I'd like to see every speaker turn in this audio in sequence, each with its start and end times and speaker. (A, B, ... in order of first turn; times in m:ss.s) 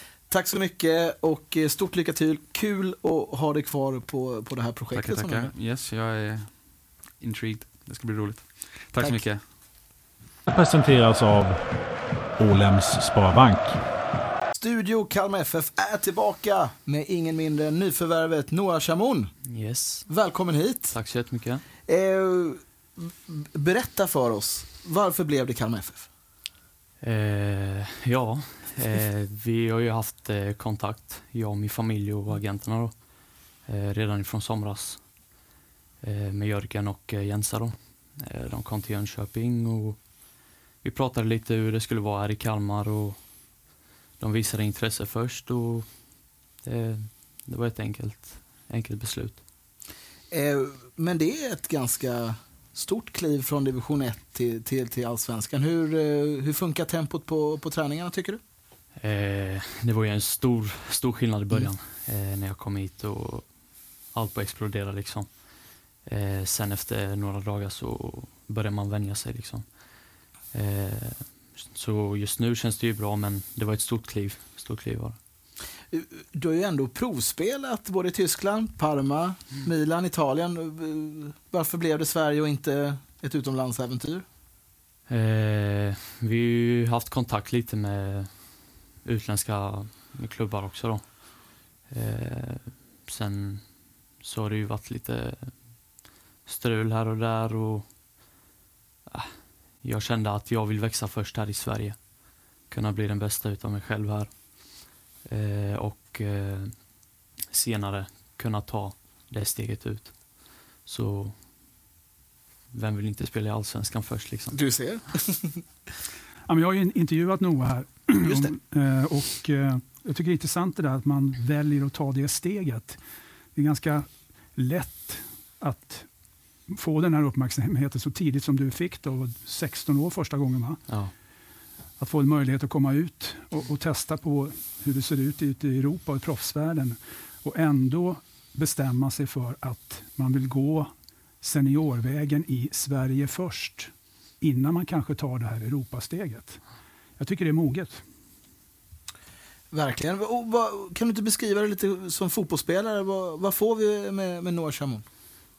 0:00.3-0:05.5 A
0:04.9-0:09.4 B
0:10.5-0:11.7 C
0:12.4-0:13.8 C
0:14.6-0:19.4 A
0:19.4-0:20.1 D
0:20.1-0:21.0 A
0:20.9-0:21.6 D
0:21.8-0:26.1 A
0:27.0-0:35.4 D
0:36.0-0:43.6 D
0:44.2-0:49.5 D
0:50.3-0:58.4 A
0:59.0-1:15.2 D
1:15.9-1:24.2 A
1:25.1-1:37.9 D
1:39.1-1:51.4 D
1:52.7-1:54.8 D
1:54.5-1:55.6 A
1:56.5-2:03.0 E
1:58.2-1:58.5 A
2:03.6-2:10.8 E
2:10.9-2:11.1 D
2:12.0-2:26.6 E
2:27.2-2:28.0 E
2:29.7-2:35.0 A